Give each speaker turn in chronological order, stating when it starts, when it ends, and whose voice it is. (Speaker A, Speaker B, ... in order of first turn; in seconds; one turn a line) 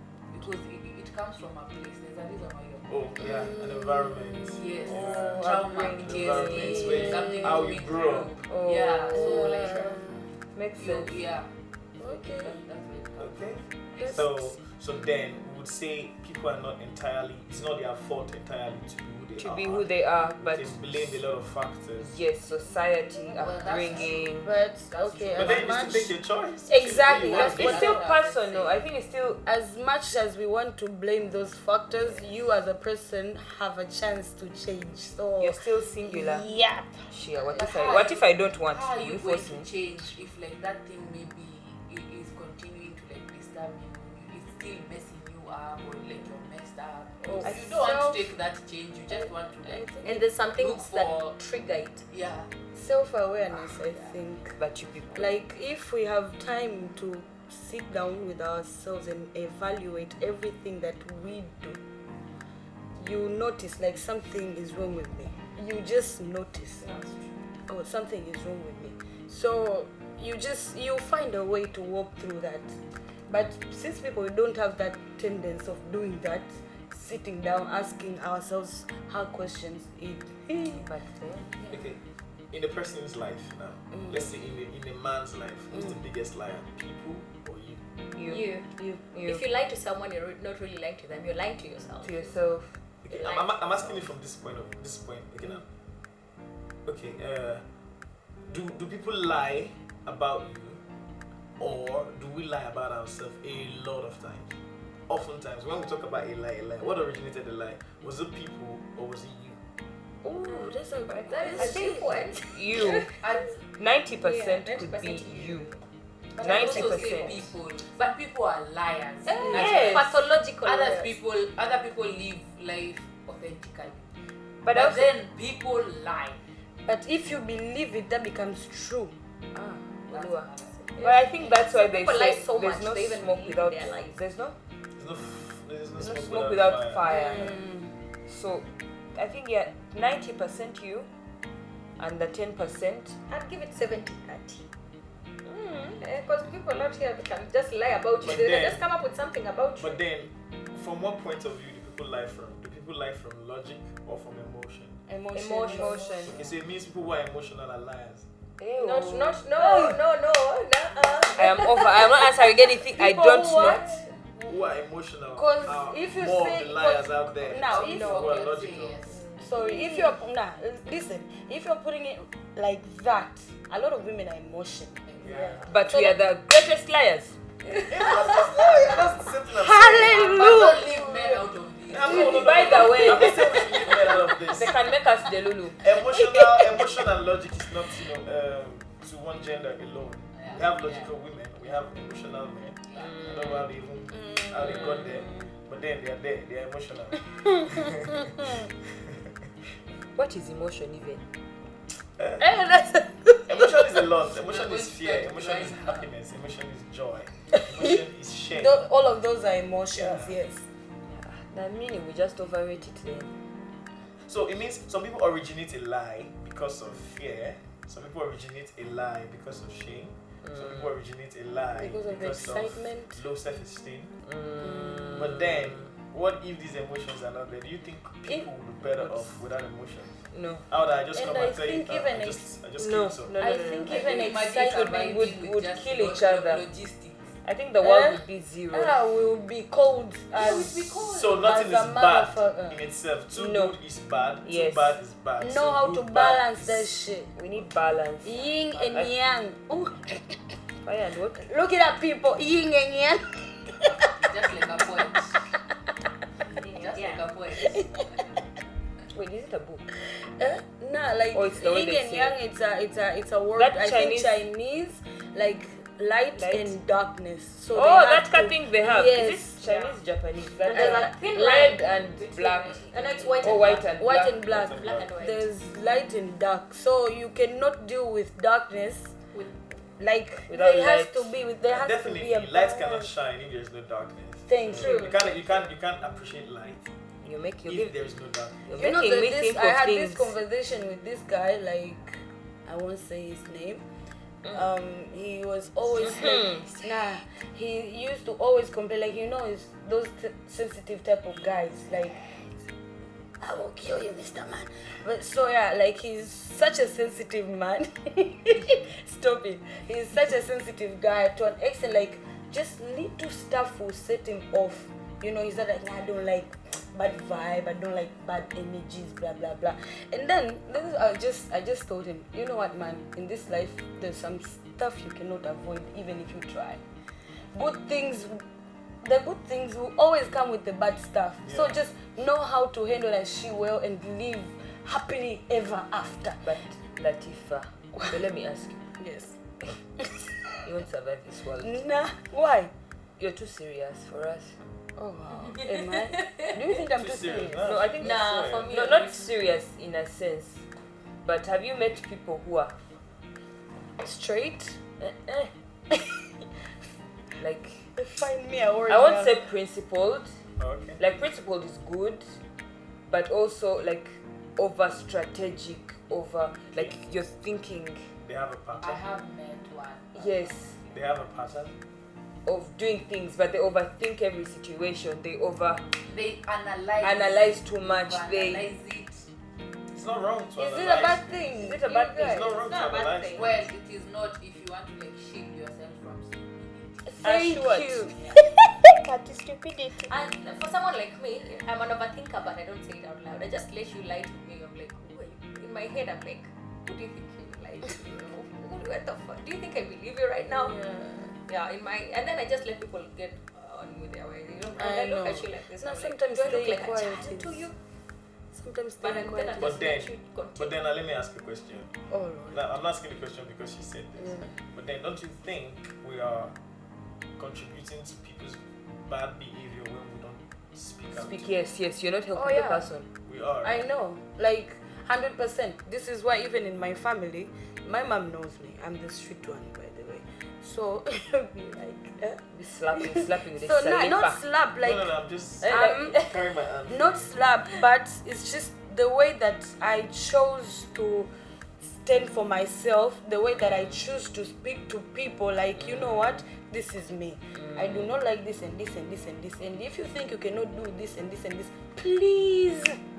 Speaker A: 0.3-2.9
Speaker B: 2.9-8.4
Speaker C: 3.2-5.6
Speaker A: 4.5-10.0
Speaker D: 4.9-7.2
Speaker C: 6.6-7.7
Speaker D: 8.5-9.7
Speaker C: 9.1-10.3
Speaker D: 10.6-11.2
Speaker A: 10.8-13.6
Speaker C: 12.0-12.6
Speaker B: 13.2-22.2
Speaker C: 14.0-14.4
Speaker D: 19.4-21.2
Speaker D: 22.0-24.6
Speaker A: 23.3-26.0
Speaker C: 24.3-26.2
Speaker B: 25.4-27.9
Speaker C: 26.7-28.0
Speaker A: 27.1-28.8
Speaker D: 27.4-29.4
Speaker C: 29.4-37.1
Speaker D: 35.4-36.5
Speaker D: 37.1-39.7
Speaker A: 37.5-51.4
Speaker C: 47.2-48.3
Speaker C: 49.1-50.2
Speaker E: 50.0-52.0
Speaker A: 52.1-52.5
Speaker C: 52.7-54.5
Speaker D: 54.6-55.4
Speaker C: 55.1-61.8
Speaker C: 63.0-66.8
Speaker E: 66.8-67.3
Speaker C: 67.7-72.8
Speaker C: 73.3-80.9
Speaker D: 80.8-81.5
Speaker B: 81.7-82.0
Speaker B: 82.5-87.8
Speaker D: 88.2-88.5
Speaker E: 88.2-88.7
Speaker D: 89.1-89.4
Speaker E: 89.2-92.4
Speaker D: 92.0-92.8
Speaker B: 93.0-95.7
Speaker E: 93.1-94.1
Speaker B: 96.8-97.7
Speaker B: 98.5-100.8
Speaker B: 101.6-104.5
Speaker B: 105.1-109.6
Speaker C: 110.2-112.3
Speaker D: 111.1-113.1
Speaker E: 111.3-113.2
Speaker A: 113.1-113.6
Speaker D: 113.8-115.7
Speaker E: 114.2-115.8
Speaker A: 116.3-124.1
Speaker D: 116.4-117.4
Speaker E: 116.4-117.5
Speaker E: 119.3-121.2
Speaker D: 119.5-120.1
Speaker D: 124.6-125.1
Speaker A: 124.7-126.4
Speaker C: 126.9-129.2
Speaker D: 129.5-134.6
Speaker A: 130.1-130.9
Speaker E: 130.9-134.2
Speaker B: 135.0-137.1
Speaker D: 136.0-137.6
Speaker C: 137.1-137.9
Speaker D: 138.3-141.1
Speaker D: 142.0-143.2
Speaker E: 143.3-144.7
Speaker D: 145.4-146.0
Speaker E: 146.0-150.0
Speaker B: 148.2-148.8
Speaker B: 149.8-155.0
Speaker C: 155.1-156.3
Speaker D: 155.3-156.3
Speaker E: 155.6-156.1
Speaker B: 156.2-158.3
Speaker D: 158.6-160.0
Speaker E: 158.8-162.4
Speaker D: 161.3-163.9
Speaker C: 162.9-164.1
Speaker E: 163.6-164.0
Speaker B: 164.4-169.0
Speaker C: 165.3-168.4
Speaker A: 167.7-169.3
Speaker C: 169.4-176.2
Speaker E: 169.6-170.1
Speaker A: 175.1-175.4
Speaker B: 175.2-175.7
Speaker D: 175.7-177.4
Speaker C: 177.7-181.4
Speaker B: 177.8-180.6
Speaker A: 180.0-182.9
Speaker B: 181.9-184.8
Speaker D: 182.0-183.6
Speaker C: 182.4-184.1
Speaker D: 184.4-185.8
Speaker B: 185.8-198.2
Speaker C: 186.1-186.9
Speaker A: 190.3-191.1
Speaker A: 192.9-193.2
Speaker D: 192.9-193.7
Speaker C: 194.1-195.4
Speaker C: 197.7-198.7
Speaker D: 200.2-201.2
Speaker B: 202.2-202.4
Speaker C: 202.4-204.1
Speaker B: 203.5-208.8
Speaker A: 204.3-206.1
Speaker C: 208.5-210.6
Speaker B: 209.9-210.4
Speaker D: 211.1-213.3
Speaker B: 214.2-224.1
Speaker D: 220.4-220.9
Speaker C: 221.8-223.2
Speaker D: 224.3-225.9
Speaker C: 224.7-225.1
Speaker B: 225.1-233.4
Speaker D: 229.0-229.3
Speaker D: 230.3-230.7
Speaker C: 231.1-232.5
Speaker D: 232.8-236.6
Speaker C: 233.4-235.0
Speaker A: 233.9-237.3
Speaker D: 237.4-239.0
Speaker C: 237.8-242.8
Speaker A: 240.3-241.5
Speaker B: 240.9-246.9
Speaker D: 243.3-243.8
Speaker D: 244.4-245.0
Speaker C: 245.4-247.3
Speaker D: 247.4-249.1
Speaker C: 248.2-250.4
Speaker D: 250.8-251.5
Speaker C: 251.4-254.1
Speaker A: 254.1-255.4
Speaker E: 256.6-257.3
Speaker A: 256.6-258.4
Speaker C: 257.5-258.0
Speaker D: 259.1-259.9
Speaker C: 260.2-269.6
Speaker D: 261.3-262.4
Speaker D: 263.6-264.5
Speaker D: 266.4-266.8
Speaker D: 267.7-274.4
Speaker E: 269.6-270.0
Speaker E: 270.6-275.5
Speaker C: 270.7-271.1
Speaker C: 273.9-279.1
Speaker B: 274.4-275.1
Speaker C: 280.0-283.1
Speaker D: 280.5-281.3
Speaker B: 281.7-286.9
Speaker C: 284.5-285.3
Speaker E: 284.8-285.2
Speaker D: 287.2-287.9
Speaker B: 287.6-288.6
Speaker D: 288.6-290.3
Speaker C: 288.8-293.8
Speaker C: 294.5-302.3
Speaker D: 296.0-296.8
Speaker C: 303.4-326.8
Speaker C: 327.5-328.4
Speaker C: 329.0-336.4
Speaker B: 331.4-331.8
Speaker D: 336.4-338.8
Speaker C: 339.0-339.4
Speaker D: 340.6-341.9
Speaker C: 341.6-342.7
Speaker D: 343.2-344.6
Speaker C: 345.0-347.8
Speaker E: 345.6-346.7
Speaker B: 346.9-348.8
Speaker D: 347.6-350.6
Speaker E: 348.0-349.3
Speaker D: 351.2-352.8
Speaker C: 354.0-354.8
Speaker D: 355.0-355.5
Speaker D: 357.4-357.9
Speaker C: 358.0-359.4
Speaker D: 358.9-360.4
Speaker B: 360.6-361.0
Speaker D: 361.0-362.4
Speaker D: 363.1-368.0
Speaker B: 368.2-369.0
Speaker A: 368.8-370.5
Speaker D: 370.1-370.8
Speaker B: 370.9-371.7
Speaker D: 372.5-375.9
Speaker A: 376.0-379.3
Speaker D: 377.0-378.7
Speaker B: 379.9-381.6
Speaker C: 380.6-382.5
Speaker D: 381.6-382.6
Speaker B: 382.2-383.6
Speaker E: 382.6-383.5
Speaker A: 383.3-386.9
Speaker C: 387.1-388.7
Speaker D: 387.2-388.1
Speaker A: 388.1-388.4
Speaker D: 389.0-390.1
Speaker E: 390.1-400.8
Speaker C: 400.4-401.4
Speaker E: 401.5-407.8
Speaker C: 404.8-407.7
Speaker C: 408.5-409.9
Speaker E: 409.0-410.8
Speaker B: 409.6-411.9
Speaker C: 412.1-412.6
Speaker B: 412.5-416.6
Speaker C: 414.2-414.6
Speaker B: 417.4-421.5
Speaker D: 421.1-423.1
Speaker C: 422.4-422.9
Speaker B: 423.2-423.9
Speaker C: 423.6-436.2
Speaker D: 432.5-434.4
Speaker B: 434.8-437.3
Speaker D: 435.6-436.4
Speaker C: 436.9-453.0
Speaker D: 445.8-446.4
Speaker D: 447.6-448.1